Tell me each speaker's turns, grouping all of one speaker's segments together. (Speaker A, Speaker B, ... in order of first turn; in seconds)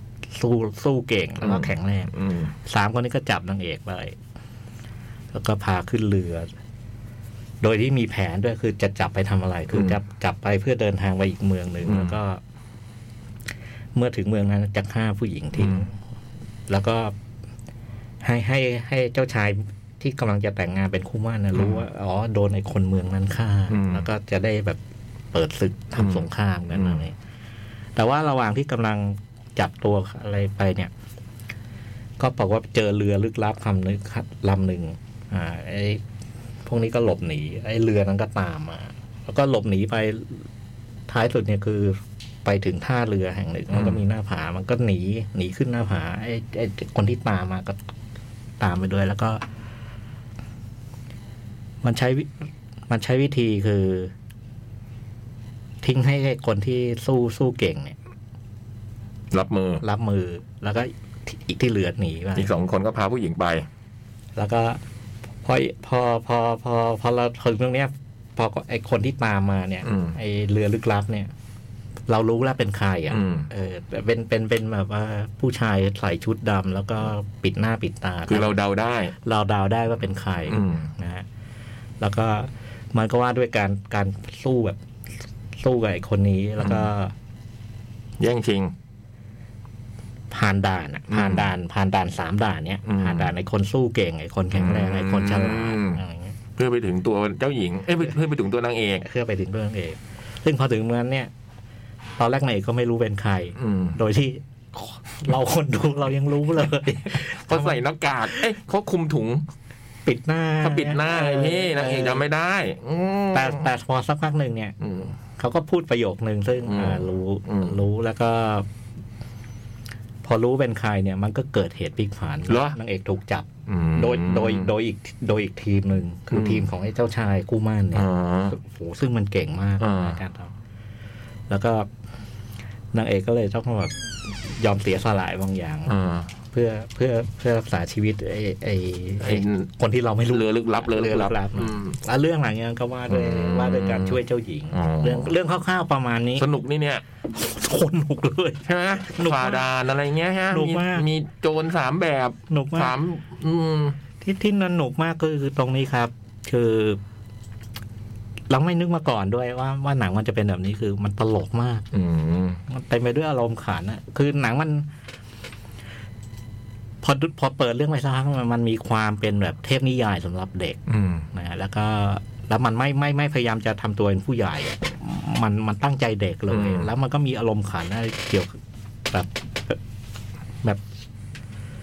Speaker A: 0.3-2.1, 2.6-4.2, 5.3-6.5, 7.6-12.4, 13.9-16.0, 16.7-17.1, 18.2-24.8, 25.3-27.1, 28.0-30.9, 32.2-36.0, 36.7-40.5, 41.1-47.8, 48.6-49.4, 51.8-52.3, 52.9-54.1, 55.8-58.0, 59.8-62.5, 64.4-64.8, 65.4-71.3, 72.1-78.6, 79.2-81.3, 82.0-84.8, 85.6-87.1, 90.3-96.4, 99.0-101.3, 102.2-108.5, 110.1-112.2, 113.3-114.8, 115.4-118.7, 120.2-130.5, 131.5-131.9, 132.9-133.9, 134.4-135.9, 136.5-146.5, 147.3-149.7, 150.5-151.1, 152.5-152.9, 154.2-157.0, 158.5-161.9, 162.7-164.9, 167.0-170.8, 171.3-178.6, 179.1-179.8
Speaker B: 1.4-2.5, 9.7-10.0, 11.8-12.2, 15.6-15.8, 21.6-21.8, 23.7-24.1, 26.0-27.0, 43.7-44.0, 59.3-59.8, 62.4-63.6, 69.8-70.2, 73.1-73.5, 78.3-79.1, 80.5-80.9, 86.6-86.9, 88.2-88.7, 91.1-91.5, 92.9-93.3, 94.5-96.0, 96.6-99.0, 103.6-104.0, 107.5-109.5, 110.6-113.7, 114.8-115.1, 116.7-117.8, 122.5-122.8, 123.7-124.7, 126.3-126.7, 127.9-128.6, 129.8-130.2, 135.9-136.3, 139.2-139.7, 140.3-142.0, 143.1-144.2, 144.7-145.3, 146.4-147.0, 148.7-154.0, 161.9-162.6, 170.9-171.3, 176.5-176.9